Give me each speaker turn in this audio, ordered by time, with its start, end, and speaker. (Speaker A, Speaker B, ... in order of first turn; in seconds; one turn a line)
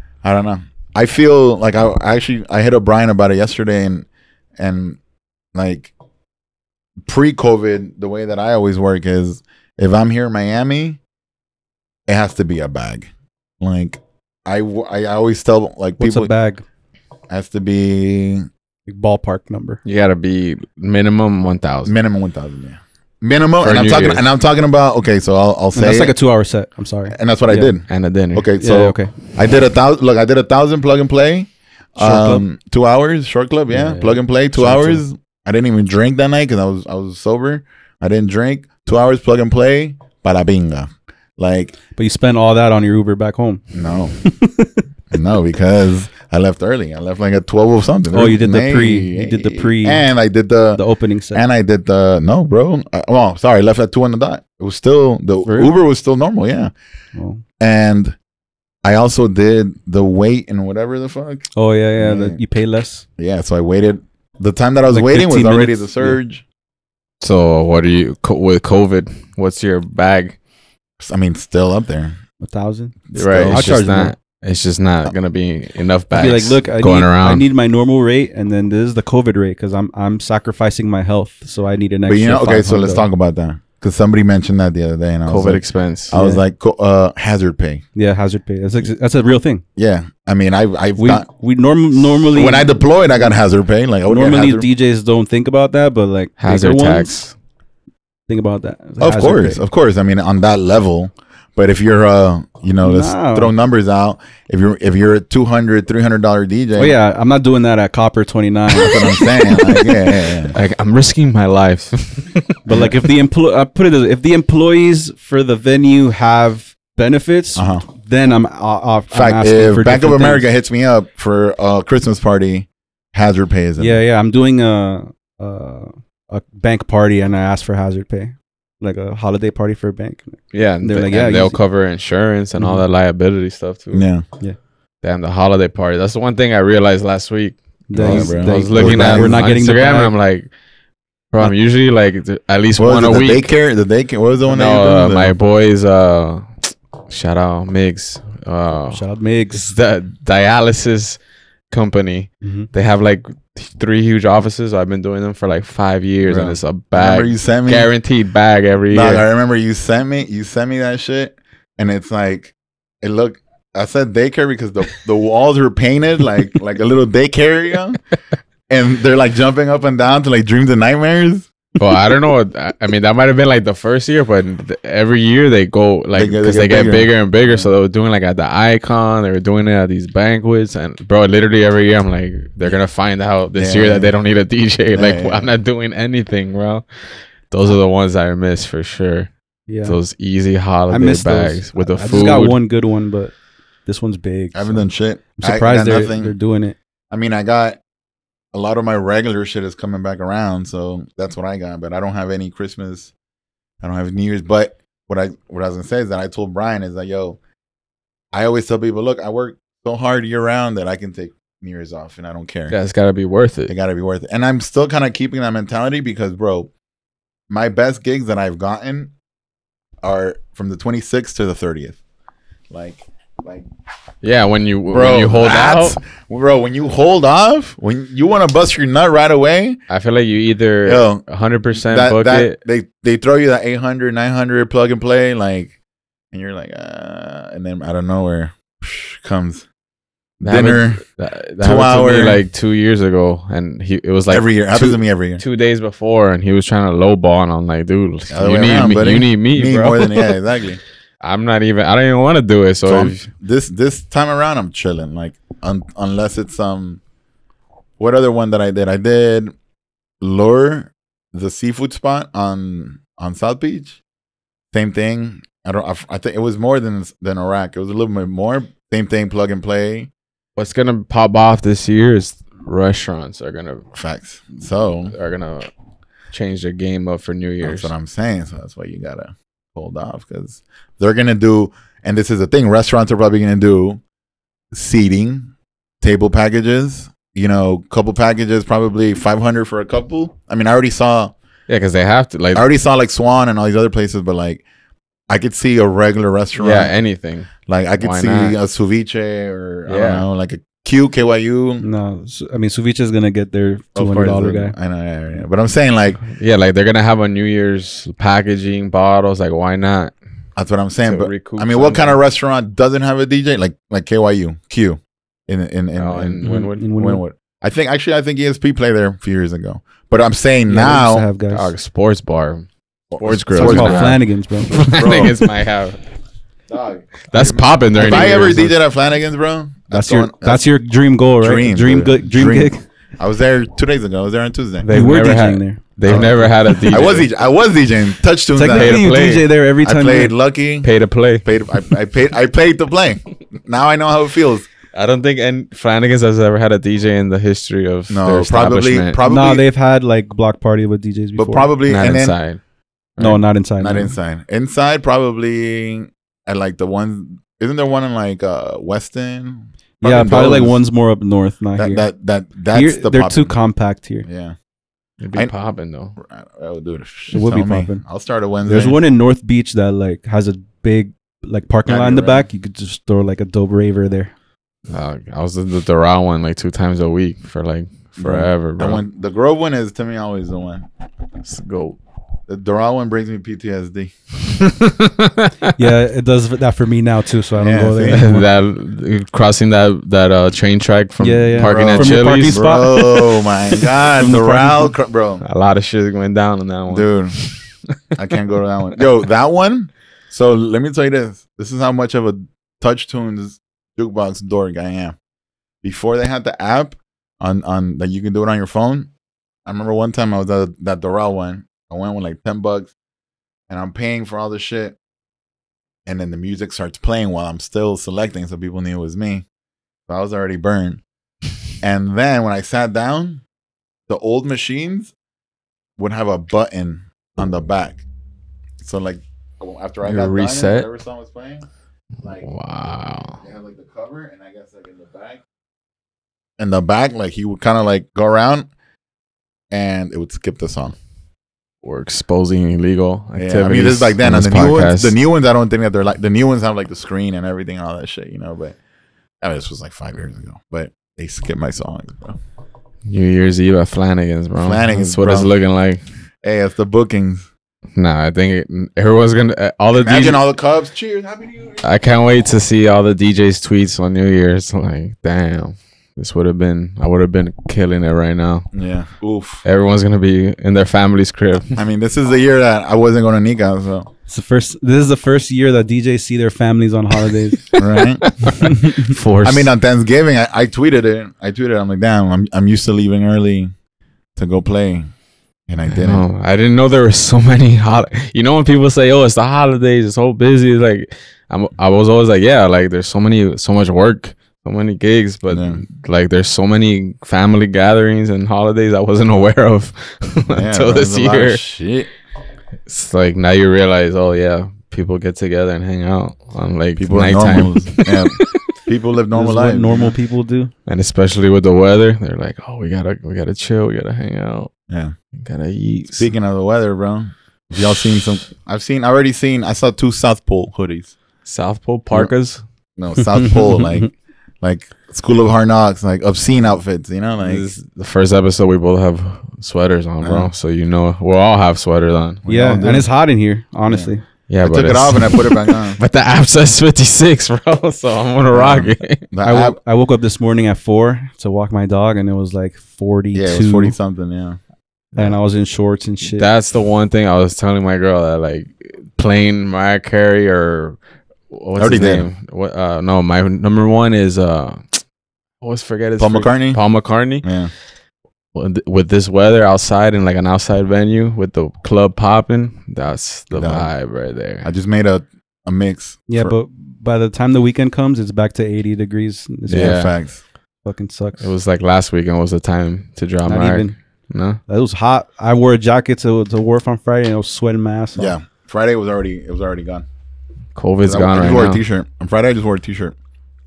Speaker A: 0.2-5.0
Speaker A: 5.5-5.9
Speaker A: 7.0-11.0
Speaker A: 12.1-13.1
Speaker A: 13.6-16.3
Speaker B: 16.0-16.6
Speaker A: 17.3-18.5
Speaker B: 18.9-19.8
Speaker C: 19.8-21.9
Speaker A: 21.9-26.1
Speaker C: 23.6-24.2
Speaker B: 25.7-27.7
Speaker A: 27.1-41.7
Speaker C: 27.9-28.5
Speaker B: 28.6-29.1
Speaker B: 32.0-32.4
Speaker B: 34.5-35.0
Speaker B: 42.0-43.6
Speaker A: 43.7-44.1
Speaker B: 44.2-44.8
Speaker A: 45.1-50.8
Speaker B: 48.1-50.0
Speaker B: 50.7-51.4
Speaker A: 51.3-56.7
Speaker B: 55.4-55.7
Speaker B: 57.1-57.4
Speaker A: 57.6-58.1
Speaker A: 58.8-62.4
Speaker B: 61.5-63.0
Speaker A: 63.2-66.4
Speaker B: 64.9-66.2
Speaker C: 67.2-70.4
Speaker A: 71.0-72.2
Speaker B: 72.4-73.0
Speaker A: 73.1-73.8
Speaker C: 73.1-77.5
Speaker B: 73.5-74.1
Speaker B: 76.1-83.1
Speaker A: 82.0-87.8
Speaker C: 85.2-86.1
Speaker B: 86.1-86.4
Speaker B: 87.9-89.6
Speaker A: 89.8-91.2
Speaker B: 91.0-92.8
Speaker A: 92.3-94.7
Speaker B: 94.1-97.2
Speaker C: 96.4-97.3
Speaker B: 98.3-99.6
Speaker A: 99.0-107.0
Speaker B: 102.8-103.5
Speaker B: 106.8-109.0
Speaker A: 108.7-110.6
Speaker C: 110.5-112.5
Speaker B: 112.6-120.5
Speaker A: 117.5-117.8
Speaker A: 119.1-124.0
Speaker B: 123.8-131.6
Speaker C: 130.5-134.1
Speaker A: 133.9-134.2
Speaker C: 135.0-140.5
Speaker B: 137.9-140.1
Speaker A: 137.9-139.3
Speaker C: 141.3-143.5
Speaker A: 142.8-145.4
Speaker C: 144.5-149.0
Speaker B: 148.9-149.7
Speaker C: 149.5-151.2
Speaker C: 151.7-159.2
Speaker B: 152.4-152.7
Speaker A: 156.2-157.9
Speaker A: 158.9-168.0
Speaker A: 168.7-171.5
Speaker C: 171.8-186.8
Speaker A: 176.1-177.7
Speaker A: 183.6-184.1
Speaker A: 184.9-185.5
Speaker C: 187.5-189.3
Speaker B: 189.7-190.0
Speaker C: 189.8-192.6
Speaker B: 190.9-193.3
Speaker B: 193.8-196.8
Speaker A: 194.5-196.3
Speaker A: 197.1-197.8
Speaker A: 198.5-203.1
Speaker A: 203.8-207.4
Speaker A: 208.3-212.8
Speaker C: 212.7-213.7
Speaker A: 213.7-216.7
Speaker A: 217.5-219.1
Speaker A: 220.0-222.0
Speaker A: 222.7-223.7
Speaker C: 224.2-226.0
Speaker A: 224.9-229.8
Speaker C: 229.9-232.6
Speaker A: 230.8-231.2
Speaker A: 231.7-235.7
Speaker A: 236.3-239.7
Speaker A: 240.4-241.0
Speaker C: 240.4-250.3
Speaker A: 241.6-242.4
Speaker A: 244.3-245.4
Speaker A: 248.3-250.8
Speaker C: 251.2-253.3
Speaker A: 252.8-257.0
Speaker A: 258.0-259.5
Speaker A: 260.2-264.0
Speaker A: 264.7-270.1
Speaker C: 270.6-273.8
Speaker A: 273.9-275.1
Speaker C: 275.1-275.7
Speaker C: 276.3-277.9
Speaker A: 277.6-284.0
Speaker A: 284.7-291.3
Speaker C: 291.7-292.6
Speaker A: 292.5-294.6
Speaker A: 295.3-296.9
Speaker C: 296.6-298.6
Speaker A: 297.7-301.9
Speaker C: 299.9-300.2
Speaker B: 301.8-304.7
Speaker A: 303.9-306.2
Speaker C: 306.2-310.1
Speaker A: 310.6-321.2
Speaker C: 311.0-312.2
Speaker C: 315.9-316.8
Speaker B: 316.4-317.2
Speaker B: 320.7-321.7
Speaker C: 321.5-322.7
Speaker A: 323.1-324.2
Speaker C: 323.2-326.0
Speaker B: 323.5-324.8
Speaker A: 324.8-325.4
Speaker A: 326.7-330.6
Speaker C: 327.3-328.7
Speaker B: 328.0-328.7
Speaker B: 329.9-332.8
Speaker A: 331.4-334.9
Speaker C: 334.8-337.3
Speaker B: 334.9-336.8
Speaker A: 336.0-339.1
Speaker B: 338.5-340.3
Speaker C: 338.6-339.5
Speaker A: 339.8-344.7
Speaker C: 340.8-341.4
Speaker C: 344.9-349.2
Speaker A: 348.1-349.6
Speaker B: 349.2-351.7
Speaker A: 351.4-352.3
Speaker C: 351.9-352.6
Speaker C: 353.2-353.4
Speaker B: 353.2-354.1
Speaker A: 353.8-360.8
Speaker B: 360.0-362.0
Speaker A: 361.8-363.6
Speaker B: 362.7-364.3
Speaker A: 364.2-364.5
Speaker C: 365.2-366.1
Speaker A: 366.2-369.0
Speaker B: 367.3-368.0
Speaker B: 368.6-374.3
Speaker A: 371.9-372.5
Speaker C: 374.9-379.0
Speaker A: 378.2-380.9
Speaker C: 381.4-382.0
Speaker A: 382.5-384.1
Speaker C: 384.5-385.7
Speaker B: 385.8-388.4
Speaker A: 387.6-388.2
Speaker C: 388.1-392.7
Speaker B: 391.2-393.4
Speaker A: 391.6-395.4
Speaker B: 394.2-394.9
Speaker C: 395.4-397.6
Speaker A: 396.9-397.4
Speaker A: 398.1-405.1
Speaker A: 405.8-409.1
Speaker A: 409.6-412.9
Speaker A: 413.7-415.0
Speaker A: 416.1-419.4
Speaker A: 420.1-421.0
Speaker A: 421.8-423.4
Speaker A: 424.1-425.1
Speaker A: 426.0-428.0
Speaker A: 428.8-431.6
Speaker C: 430.0-430.9
Speaker A: 432.2-432.5
Speaker C: 432.4-433.4
Speaker A: 433.4-435.4
Speaker A: 436.6-438.7
Speaker A: 439.7-441.0
Speaker C: 441.8-445.1
Speaker A: 443.4-448.8
Speaker A: 449.4-452.4
Speaker C: 453.1-456.0
Speaker A: 454.6-455.5
Speaker A: 456.4-457.5
Speaker C: 457.9-460.4
Speaker A: 459.9-461.8
Speaker C: 461.8-468.7
Speaker A: 468.7-469.6
Speaker C: 469.6-471.8
Speaker A: 471.7-474.1
Speaker B: 474.3-477.6
Speaker A: 477.8-478.3
Speaker C: 477.8-479.7
Speaker B: 478.6-479.1
Speaker A: 479.4-483.7
Speaker A: 484.4-485.1
Speaker A: 485.7-486.2
Speaker C: 485.9-501.6
Speaker A: 495.5-495.8
Speaker A: 500.5-502.1
Speaker C: 502.9-508.6
Speaker A: 507.0-510.1
Speaker B: 509.3-510.7
Speaker C: 510.9-514.7
Speaker C: 515.4-516.3
Speaker A: 516.1-521.1
Speaker C: 521.5-522.6
Speaker A: 523.0-527.7
Speaker B: 523.4-524.0
Speaker C: 527.4-532.9
Speaker A: 530.2-530.5
Speaker A: 532.4-533.1
Speaker B: 532.5-534.2
Speaker C: 534.5-539.2
Speaker A: 534.6-536.0
Speaker A: 538.5-539.8
Speaker B: 539.4-543.9
Speaker A: 543.3-544.6
Speaker B: 545.1-546.5
Speaker C: 546.2-551.0
Speaker C: 551.5-555.0
Speaker A: 551.8-552.3
Speaker C: 555.6-557.5
Speaker A: 556.2-556.8
Speaker A: 557.4-557.7
Speaker C: 558.5-564.7
Speaker A: 563.5-563.9
Speaker A: 564.6-566.5
Speaker B: 566.3-570.0
Speaker C: 569.7-570.1
Speaker A: 569.7-570.4
Speaker B: 570.8-571.5
Speaker C: 571.4-574.6
Speaker B: 573.5-573.9
Speaker B: 574.7-578.3
Speaker A: 578.1-580.0
Speaker C: 580.8-581.8
Speaker A: 581.0-583.1